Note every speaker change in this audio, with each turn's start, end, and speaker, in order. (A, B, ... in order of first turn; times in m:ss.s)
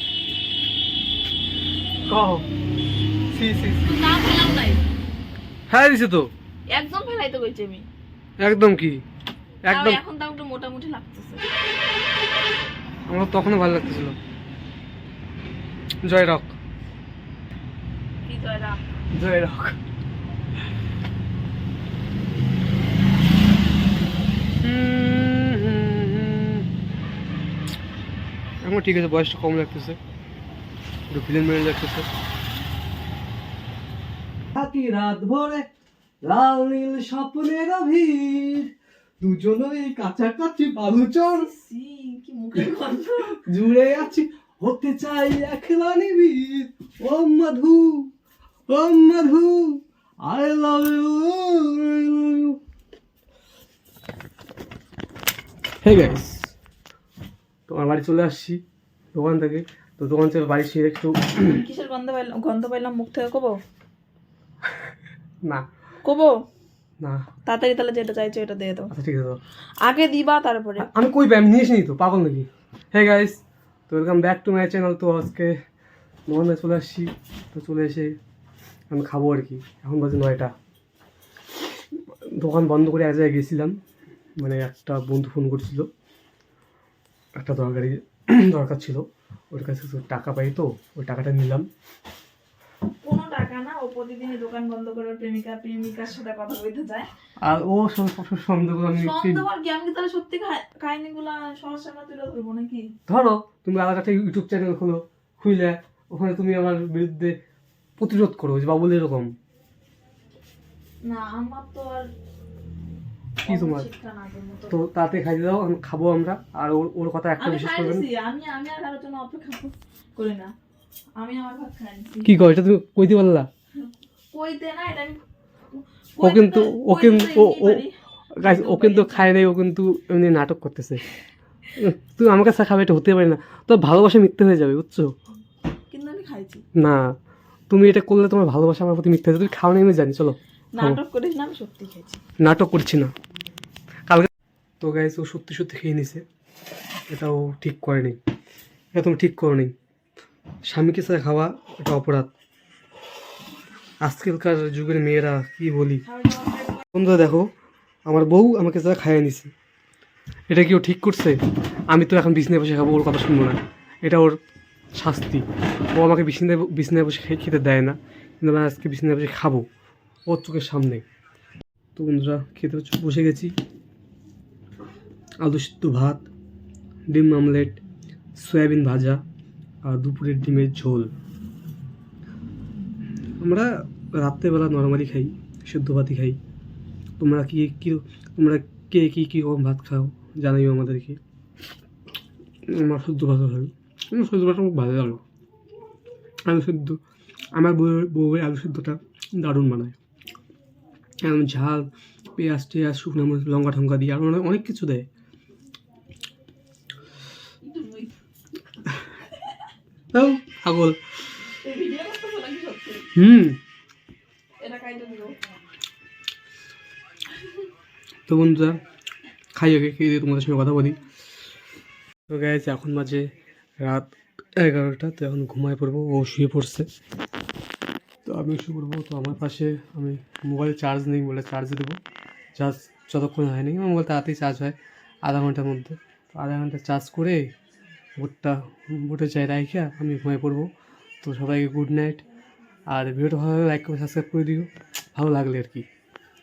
0:02.1-0:02.4 A
0:03.3-0:03.9 A
0:03.8-0:04.8 B
0:05.7-0:06.3 A
0:06.7-0:07.9 B
0:08.4-0:09.0 A
0:09.7-0:10.0 A
0:09.7-0:11.5 B
0:13.1-0:14.2 A
0:16.1-0:16.6 A
0:18.2-0:18.8 B
0:19.2-0:19.8 A
0:24.6-0:26.7 A
0:28.6-0:30.0 A
0:31.1-0:32.1 A
0:34.6-0:35.7 A
0:36.2-0:41.5 A
0:41.4-0:43.4 B
0:43.4-0:48.1 A
0:48.7-0:52.6 A
0:55.8-0:56.5 A
0:57.7-0:58.6 A
0:59.1-1:01.6 A
1:01.4-1:03.6 B
1:06.0-1:06.4 B
1:07.0-1:07.3 A
1:07.5-1:08.9 B
1:08.9-1:09.4 A
1:09.8-1:10.9 B
1:10.8-1:15.5 A
1:16.3-1:18.2 A
1:18.9-1:20.5 A
1:22.2-1:23.8 A
1:24.4-1:25.9 A
1:27.4-1:31.7 A
1:33.0-1:37.1 B
1:37.4-1:39.5 A
1:39.0-1:42.9 B
1:43.1-1:47.4 A
1:48.0-1:49.3 A
1:51.0-1:52.1 B
1:53.4-1:54.8 B
1:53.4-1:53.9 A
1:54.7-1:58.1 A
1:57.4-2:00.5 B
2:01.2-2:02.3 B
2:02.2-2:03.5 A
2:03.8-2:09.3 B
2:06.2-2:07.8 A
2:08.4-2:11.0 A
2:11.7-2:15.1 A
2:15.9-2:16.6 B
2:16.8-2:17.1 A
2:17.7-2:21.0 A
2:20.7-2:22.2 B
2:22.4-2:23.1 A
2:24.8-2:26.2 A
2:27.1-2:28.2 A
2:28.9-2:29.7 A
2:30.7-2:32.3 A
2:34.0-2:36.1 A
2:36.2-2:36.8 B
2:36.9-2:37.5 A
2:38.1-2:39.5 A
2:40.5-2:41.4 A
2:41.9-2:44.4 A
2:45.0-2:49.7 A
2:50.3-2:51.0 A
2:52.0-2:53.5 A
2:55.4-2:56.3 A
2:57.1-2:57.8 A
2:58.4-2:59.2 A
2:59.8-3:01.1 A
3:03.4-3:06.4 A
3:07.2-3:11.2 A
3:12.7-3:15.2 A
3:16.5-3:17.0 A
3:17.6-3:20.0 A
3:21.2-3:25.1 A
3:27.6-3:28.2 B
3:30.1-3:31.0 A
3:31.6-3:33.1 B
3:33.2-3:33.6 A
3:34.6-3:35.4 B
3:38.3-3:38.8 A
3:39.6-3:41.0 A
3:42.3-3:43.3 A
3:43.8-3:46.9 A
3:48.3-3:52.0 A
3:52.6-3:57.5 A
3:58.2-4:00.7 A
4:01.2-4:02.2 A
4:02.9-4:05.9 A